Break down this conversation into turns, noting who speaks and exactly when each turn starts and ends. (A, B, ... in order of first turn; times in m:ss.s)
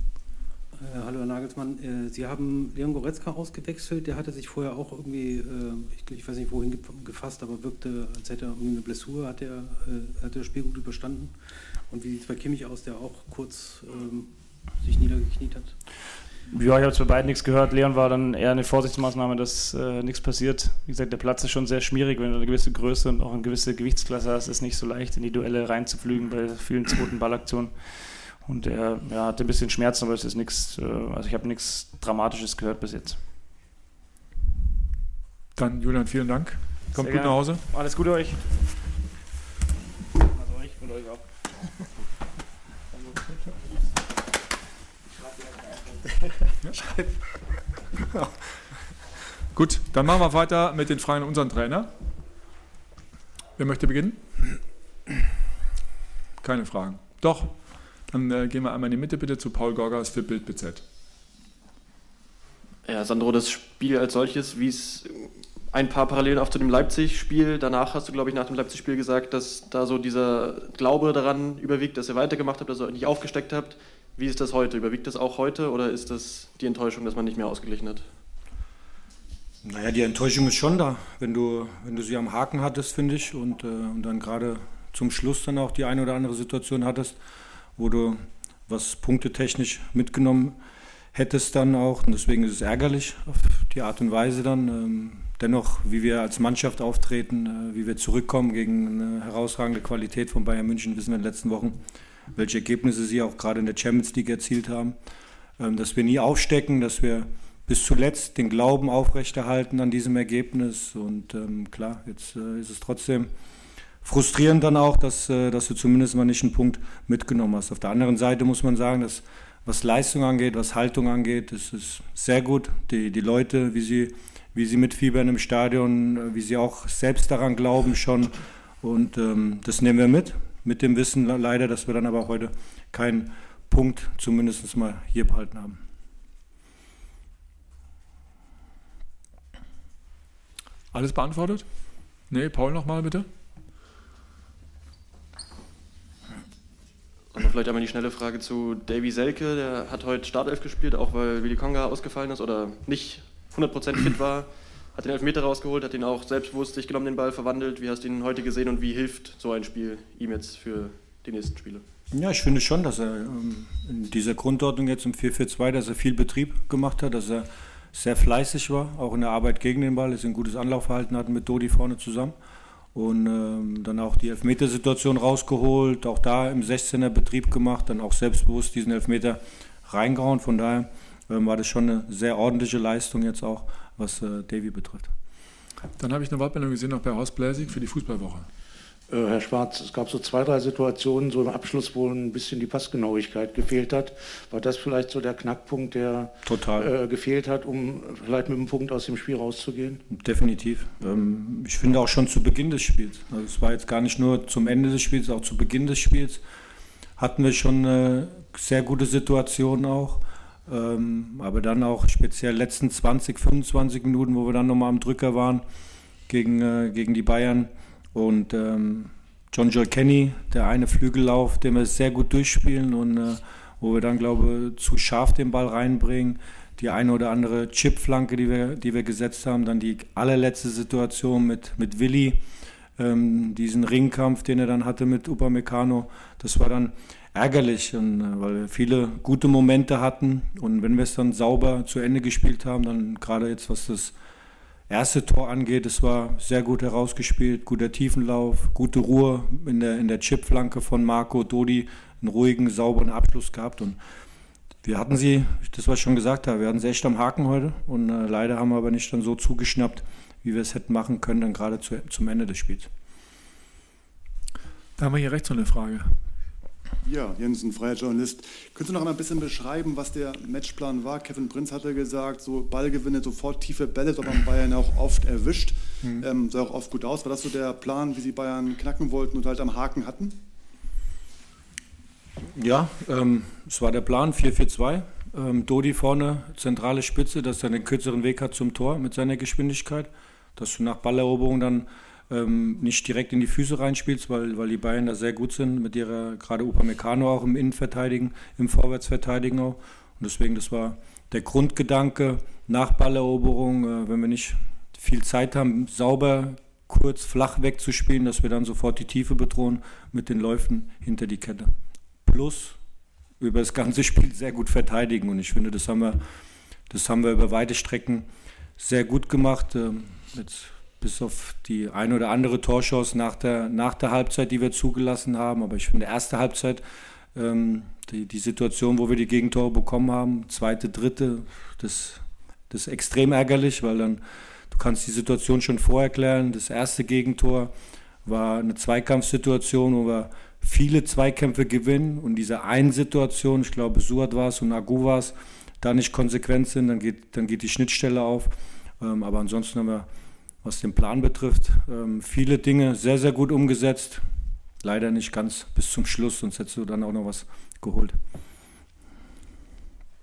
0:00.7-0:11.3 A
0:11.9-0:15.7 A
0:16.5-0:33.2 B
0:35.6-0:37.6 C
0:36.9-0:38.6 B
0:40.3-0:41.2 B
0:49.5-0:51.9 C
0:53.6-0:54.2 C
0:56.4-1:00.8 C
1:02.8-1:18.1 D
1:19.6-1:27.2 E
1:27.8-1:30.6 E
1:31.1-1:41.8 E
1:42.3-1:44.9 E
1:45.6-1:53.3 E
1:54.0-2:15.8 E
2:20.9-2:21.6 C
2:22.3-2:23.3 C
2:27.3-2:41.8 D
2:42.1-2:52.3 E
2:52.9-3:05.1 E
3:06.0-3:08.5 C
3:09.1-3:16.3 F
3:16.4-3:16.9 E
3:17.1-3:20.0 F
3:20.1-3:26.4 E
3:27.2-3:35.6 E
3:36.3-3:52.4 E
3:53.0-4:04.1 E
4:04.9-4:14.0 E
4:14.8-4:22.9 E
4:25.0-4:26.2 C
4:27.0-4:40.4 G
4:42.5-5:11.7 E
5:12.2-5:12.8 E
5:13.4-5:16.2 E
5:16.9-5:18.2 E
5:18.8-5:26.8 E
5:27.3-5:37.7 E
5:38.2-5:50.1 E
5:50.6-5:54.2 E
5:54.8-5:58.1 E